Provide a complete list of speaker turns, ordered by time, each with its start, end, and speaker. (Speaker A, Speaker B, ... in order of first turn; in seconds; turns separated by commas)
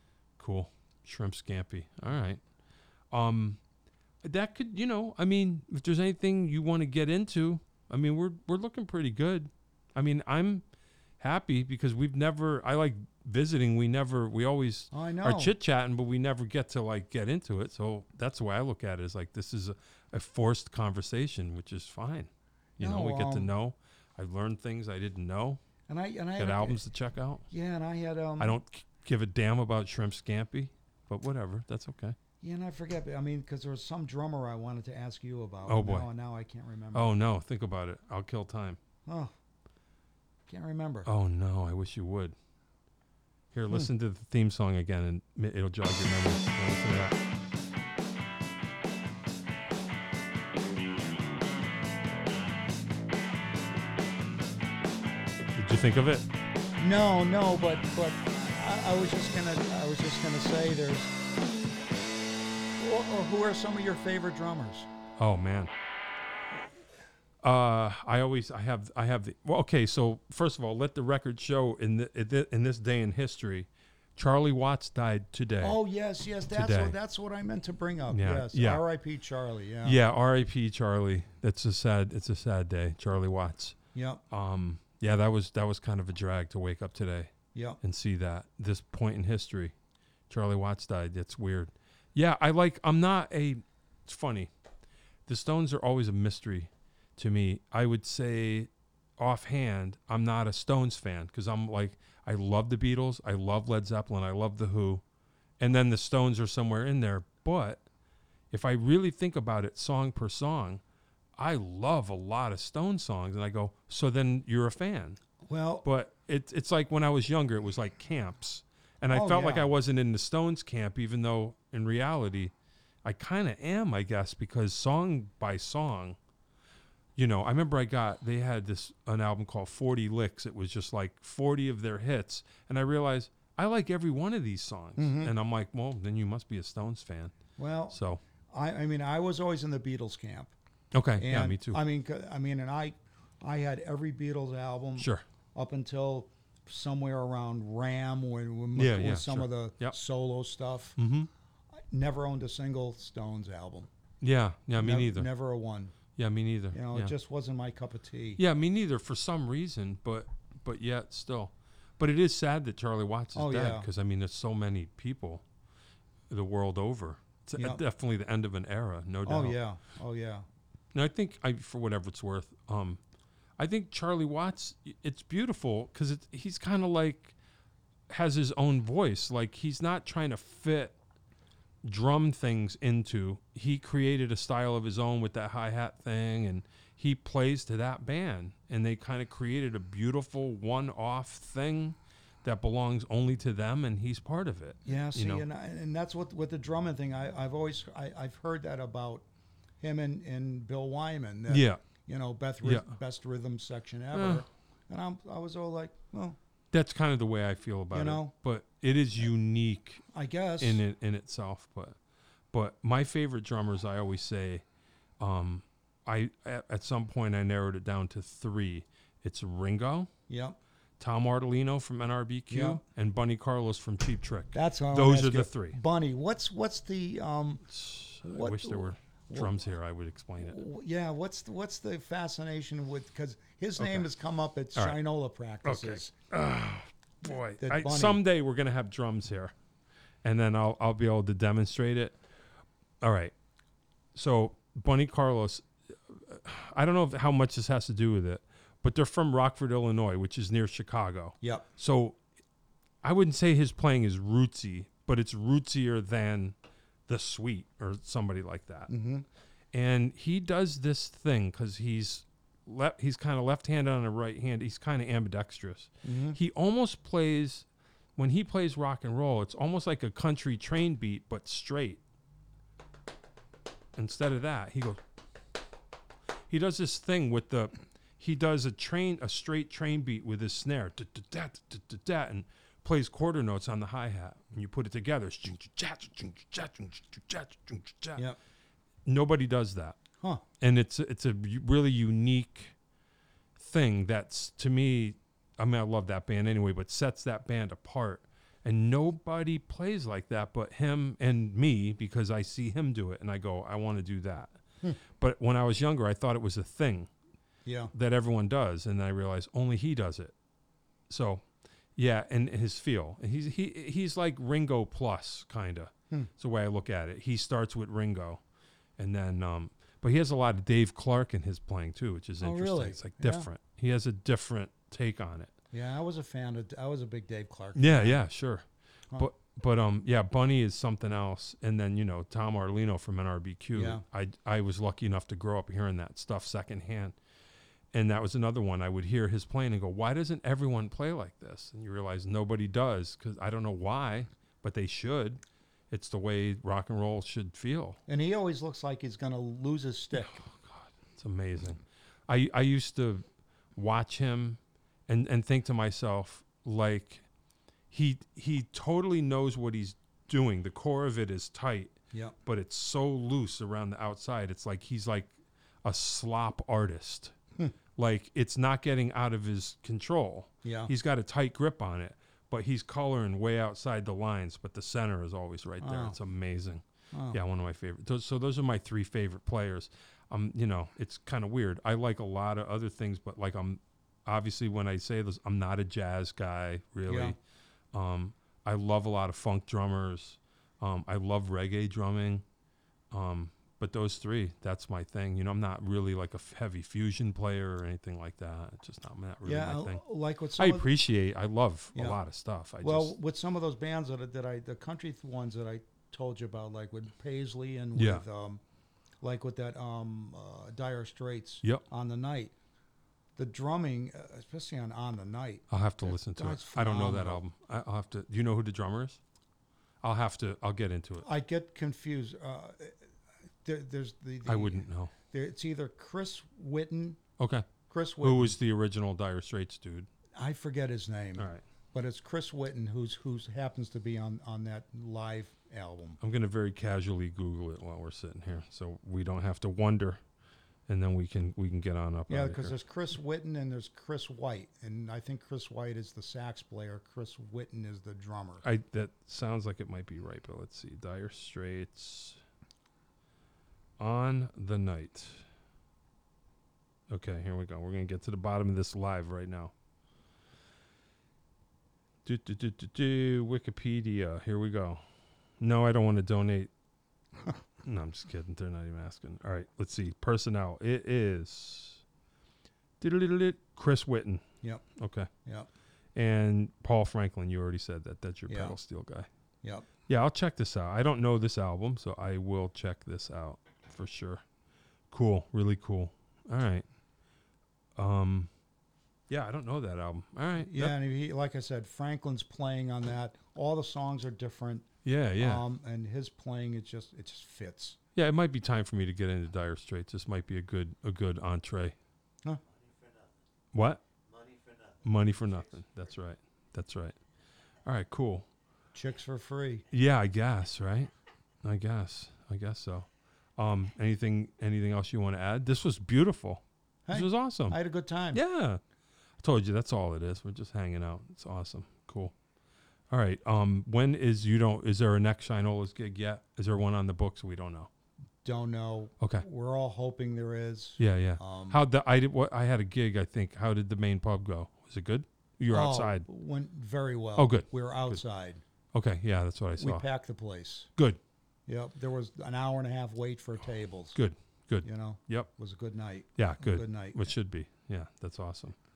Speaker A: 0.4-2.4, Speaker A: 3.1-3.6, Speaker A: 4.2-10.6, Speaker A: 11.2-25.6, Speaker B: 14.9-15.5, Speaker B: 22.8-23.5, Speaker B: 25.9-26.8, Speaker A: 26.4-27.4, Speaker B: 27.5-28.6, Speaker A: 28.4-32.2, Speaker B: 32.4-37.1, Speaker A: 35.6-36.1, Speaker A: 36.9-38.8, Speaker B: 39.0-39.3, Speaker B: 40.5-41.1, Speaker A: 41.0-42.3, Speaker A: 43.5-47.2, Speaker A: 55.5-56.3, Speaker B: 56.8-61.1, Speaker B: 62.8-64.9, Speaker A: 65.2-65.7, Speaker A: 67.4-75.8, Speaker B: 75.6-80.0, Speaker A: 76.5-77.0, Speaker A: 78.1-78.8, Speaker A: 79.8-83.8, Speaker B: 83.9-84.2, Speaker A: 84.3-89.7, Speaker B: 87.5-87.8, Speaker A: 90.3-94.5, Speaker A: 95.3-105.0, Speaker A: 105.6-107.8, Speaker A: 108.5-110.8, Speaker A: 111.4-115.2, Speaker B: 115.4-115.8, Speaker A: 115.8-122.5, Speaker B: 119.1-119.7, Speaker A: 123.0-126.2, Speaker A: 127.2-137.3, Speaker B: 135.0-135.3, Speaker B: 137.6-138.0, Speaker A: 137.9-138.2, Speaker B: 138.5-140.5, Speaker A: 140.9-141.8, Speaker B: 141.2-151.0, Speaker A: 145.0-145.2, Speaker A: 148.8-150.0, Speaker A: 151.0-151.3, Speaker B: 151.9-153.9, Speaker A: 154.2-155.3, Speaker B: 154.8-155.9, Speaker A: 156.2-157.1, Speaker B: 156.7-158.4, Speaker A: 158.4-165.4, Speaker B: 163.3-163.9, Speaker A: 166.3-169.6, Speaker B: 169.2-170.4, Speaker A: 170.9-173.0, Speaker A: 173.6-177.3, Speaker A: 178.1-181.0, Speaker A: 181.8-195.4, Speaker B: 194.8-199.2, Speaker B: 199.8-206.4, Speaker A: 201.5-201.8, Speaker A: 202.6-202.9, Speaker A: 204.1-204.4, Speaker A: 206.7-210.0, Speaker B: 207.9-208.3, Speaker B: 210.1-210.8, Speaker A: 210.6-212.0, Speaker A: 212.5-214.6, Speaker A: 215.2-220.1, Speaker B: 220.3-220.6, Speaker A: 221.0-225.8, Speaker B: 222.5-222.8, Speaker B: 224.5-227.7, Speaker A: 227.7-230.6, Speaker B: 228.2-229.5, Speaker B: 230.4-236.1, Speaker A: 233.8-234.1, Speaker A: 235.6-239.5, Speaker B: 237.6-238.2, Speaker A: 240.2-242.2, Speaker A: 243.0-243.3, Speaker A: 244.1-252.2, Speaker B: 251.4-251.7, Speaker A: 253.0-256.6, Speaker A: 257.1-258.9, Speaker B: 258.9-259.2, Speaker A: 259.7-272.0, Speaker B: 266.0-266.4, Speaker A: 273.9-275.0, Speaker A: 276.5-288.2, Speaker A: 289.0-290.0, Speaker A: 290.6-292.7, Speaker A: 293.6-304.5, Speaker A: 305.1-307.1, Speaker B: 307.6-307.9, Speaker A: 307.9-310.3, Speaker A: 311.1-311.4, Speaker A: 311.9-318.4, Speaker A: 319.0-325.5, Speaker B: 322.4-323.5, Speaker B: 325.7-328.2, Speaker A: 327.7-337.1, Speaker B: 333.7-334.0, Speaker A: 337.9-348.0, Speaker B: 348.1-350.4, Speaker A: 350.1-353.2, Speaker A: 353.7-357.2, Speaker A: 357.9-367.4, Speaker B: 362.1-362.4, Speaker A: 367.9-387.4, Speaker B: 370.6-370.9, Speaker B: 375.8-376.2, Speaker B: 377.1-377.4, Speaker B: 387.1-387.4, Speaker A: 387.9-392.4, Speaker A: 393.1-400.0, Speaker B: 399.4-400.9, Speaker A: 400.6-403.1, Speaker B: 402.8-408.6, Speaker A: 407.9-408.2, Speaker B: 409.2-412.5, Speaker B: 413.4-417.4, Speaker A: 415.7-419.2, Speaker A: 420.0-421.2, Speaker B: 421.2-423.0, Speaker B: 423.6-427.2, Speaker A: 424.4-425.1, Speaker A: 427.4-427.7, Speaker B: 427.9-428.5, Speaker A: 428.2-430.1, Speaker B: 430.4-436.2, Speaker A: 431.4-431.6, Speaker A: 436.2-440.2, Speaker A: 440.9-442.7, Speaker B: 442.3-448.6, Speaker A: 448.6-452.4, Speaker A: 454.0-455.4, Speaker A: 457.1-459.7, Speaker A: 462.2-465.0, Speaker A: 465.6-466.7, Speaker A: 467.8-472.0, Speaker A: 473.0-474.4, Speaker A: 474.9-475.3, Speaker A: 476.1-479.3, Speaker B: 478.5-478.8, Speaker B: 479.6-479.9, Speaker A: 480.1-484.4, Speaker A: 485.1-486.8, Speaker A: 488.0-488.5, Speaker A: 489.3-490.9, Speaker B: 490.6-498.0, Speaker A: 495.0-495.6, Speaker A: 498.1-501.9, Speaker C: 502.6-503.4, Speaker A: 503.7-504.0, Speaker C: 504.2-506.0, Speaker A: 505.0-507.1, Speaker A: 507.8-508.5, Speaker B: 508.9-509.8, Speaker A: 509.9-511.1, Speaker A: 511.6-517.8, Speaker B: 517.1-518.4, Speaker A: 518.3-518.8, Speaker A: 519.4-522.3, Speaker A: 523.1-527.9, Speaker B: 528.4-531.8, Speaker A: 531.0-536.2, Speaker B: 535.7-538.6, Speaker A: 537.4-538.2, Speaker A: 538.9-540.1, Speaker B: 539.8-540.9, Speaker B: 541.7-544.2, Speaker A: 544.1-545.5, Speaker B: 544.8-547.3, Speaker A: 546.4-548.8